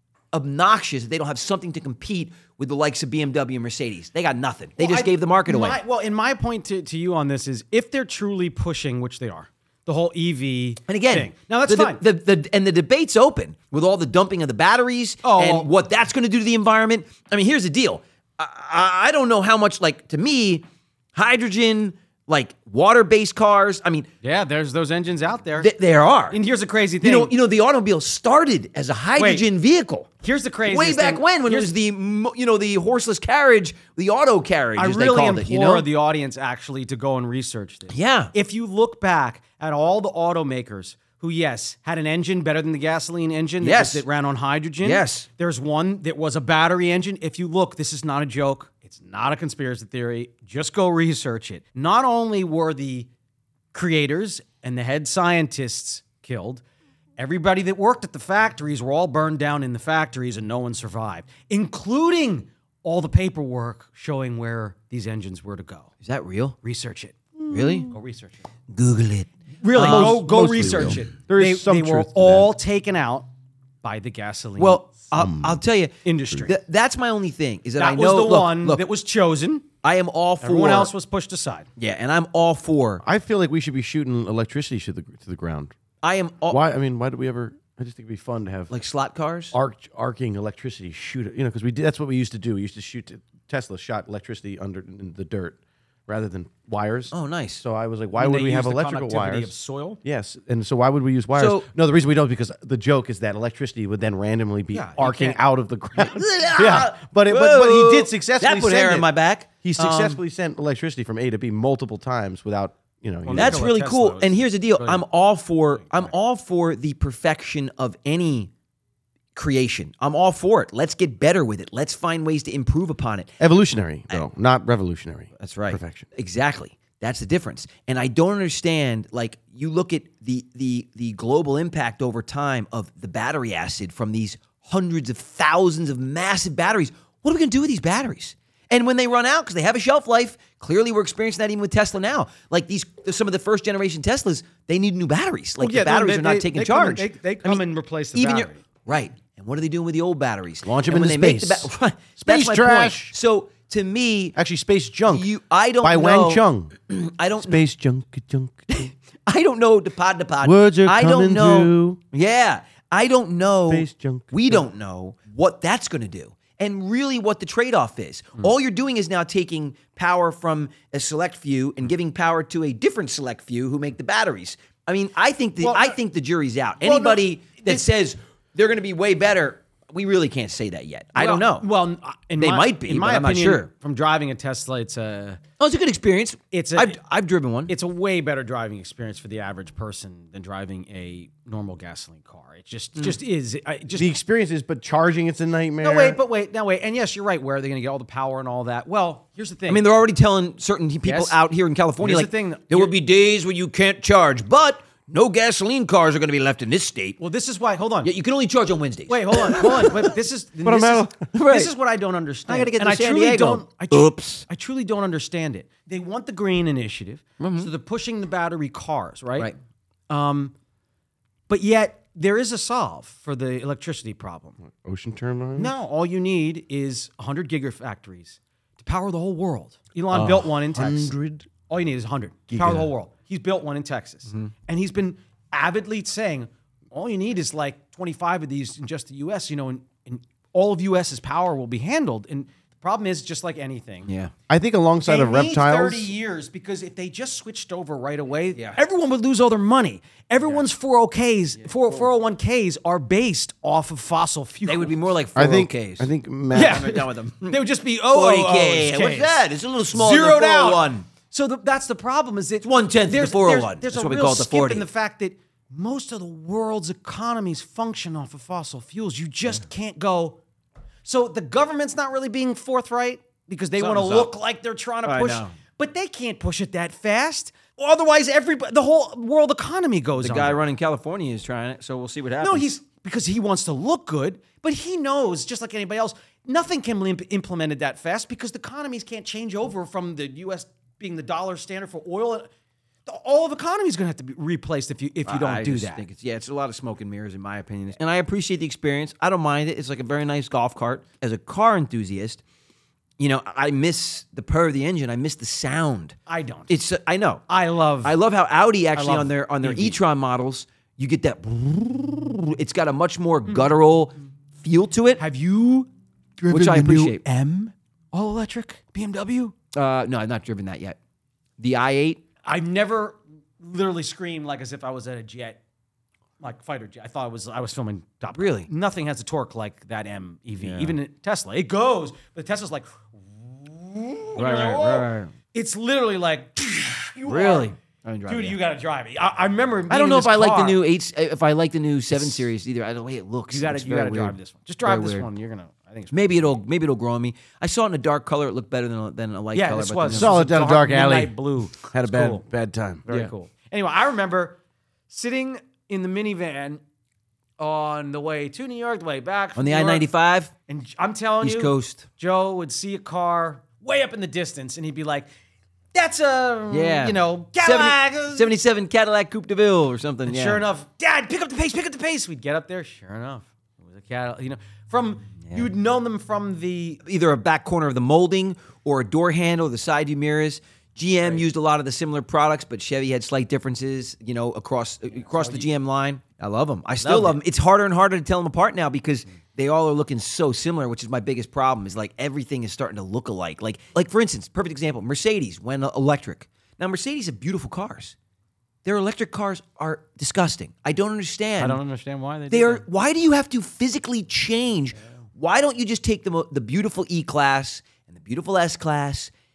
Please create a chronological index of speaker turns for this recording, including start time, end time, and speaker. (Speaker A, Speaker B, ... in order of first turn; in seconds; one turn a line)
Speaker A: 0.3-5.8
Speaker B: 4.8-12.0
Speaker A: 10.9-24.1
Speaker B: 15.2-15.7
Speaker B: 24.2-25.7
Speaker A: 25.6-26.4
Speaker B: 26.3-27.3
Speaker A: 27.0-30.1
Speaker B: 29.2-29.5
Speaker B: 30.2-31.7
Speaker A: 30.7-35.9
Speaker B: 34.8-53.1
Speaker A: 37.9-38.3
Speaker A: 43.6-44.0
Speaker A: 44.8-45.3
Speaker B: 53.7-56.6
Speaker B: 57.2-65.9
Speaker A: 66.0-66.6
Speaker B: 66.6-68.5
Speaker C: 67.5-67.9
Speaker A: 67.5-67.9
Speaker A: 68.7-70.9
Speaker B: 69.6-73.3
Speaker C: 69.7-72.5
Speaker B: 73.8-75.0
Speaker A: 74.6-78.8
Speaker C: 75.1-75.6
Speaker B: 76.0-76.5
Speaker B: 77.8-79.7
Speaker A: 79.8-80.9
Speaker B: 80.4-81.7
Speaker A: 81.8-83.0
Speaker C: 83.0-85.7
Speaker A: 86.0-86.6
Speaker C: 86.5-88.7
Speaker A: 88.7-89.5
Speaker C: 89.5-99.5
Speaker A: 97.1-97.6
Speaker B: 98.2-100.0
Speaker C: 100.0-109.1
Speaker A: 101.3-101.7
Speaker B: 104.7-105.4
Speaker A: 106.0-110.2
Speaker C: 109.6-113.6
Speaker B: 113.3-115.0
Speaker A: 113.3-118.5
Speaker A: 119.3-123.3
Speaker C: 123.4-126.1
Speaker A: 125.4-154.4
Speaker B: 145.6-148.6
Speaker C: 150.6-153.1
Speaker C: 154.3-155.3
Speaker A: 155.1-157.6
Speaker C: 155.8-156.7
Speaker C: 157.4-158.8
Speaker A: 158.7-181.7
Speaker C: 160.4-162.0
Speaker C: 163.7-164.6
Speaker B: 175.6-176.0
Speaker B: 176.8-177.8
Speaker B: 181.2-185.4
Speaker A: 182.4-183.7
Speaker A: 185.6-187.7
Speaker B: 186.5-187.0
Speaker B: 187.7-194.1
Speaker C: 193.9-196.2
Speaker B: 195.8-199.8
Speaker A: 199.7-207.2
Speaker B: 201.1-201.4
Speaker B: 202.0-202.9
Speaker B: 207.2-208.1
Speaker A: 208.0-210.1
Speaker B: 209.1-219.5
Speaker C: 210.6-211.3
Speaker A: 211.3-211.7
Speaker A: 212.5-214.4
Speaker A: 217.4-217.7
Speaker B: 220.1-220.5
Speaker B: 221.5-224.6
Speaker C: 224.6-225.7
Speaker B: 225.6-231.1
Speaker C: 230.1-231.5
Speaker B: 231.7-244.1
Speaker C: 232.5-232.9
Speaker A: 234.3-234.5
Speaker A: 244.1-244.3
Speaker C: 244.5-246.1
Speaker B: 245.1-255.0
Speaker A: 251.6-252.0
Speaker A: 254.7-257.6
Speaker C: 255.3-256.9
Speaker B: 256.5-270.4
Speaker A: 258.1-261.1
Speaker A: 262.6-264.9
Speaker B: 271.1-280.6
Speaker A: 273.8-274.3
Speaker A: 275.0-275.6
Speaker A: 280.2-282.7
Speaker B: 282.4-292.5
Speaker B: 293.1-296.0
Speaker A: 295.3-302.4
Speaker A: 303.2-306.2
Speaker B: 306.3-306.8
Speaker A: 306.7-307.4
Speaker B: 307.5-308.2
Speaker A: 308.0-315.2
Speaker B: 308.9-310.0
Speaker B: 313.5-313.7
Speaker B: 315.2-319.5
Speaker A: 316.5-317.2
Speaker A: 319.7-321.0
Speaker A: 321.6-322.2
Speaker B: 322.4-325.6
Speaker B: 326.4-337.7
Speaker A: 328.3-328.7
Speaker A: 330.6-331.0
Speaker A: 334.4-335.3
Speaker A: 337.3-338.6
Speaker B: 338.3-340.8
Speaker A: 339.9-345.3
Speaker B: 342.1-342.4
Speaker B: 343.5-346.6
Speaker A: 346.1-350.3
Speaker B: 349.5-352.4
Speaker C: 350.1-353.1
Speaker B: 353.1-354.6
Speaker B: 355.1-356.8
Speaker B: 357.6-360.1
Speaker A: 359.6-360.5
Speaker B: 360.7-365.3
Speaker A: 361.4-362.1
Speaker B: 365.9-368.5
Speaker A: 366.7-370.6
Speaker B: 370.2-377.0
Speaker A: 375.4-375.7
Speaker A: 377.0-398.2
Speaker B: 385.2-385.7
Speaker B: 387.0-387.4
Speaker A: 398.9-401.8
Speaker B: 401.6-402.8
Speaker A: 402.5-409.3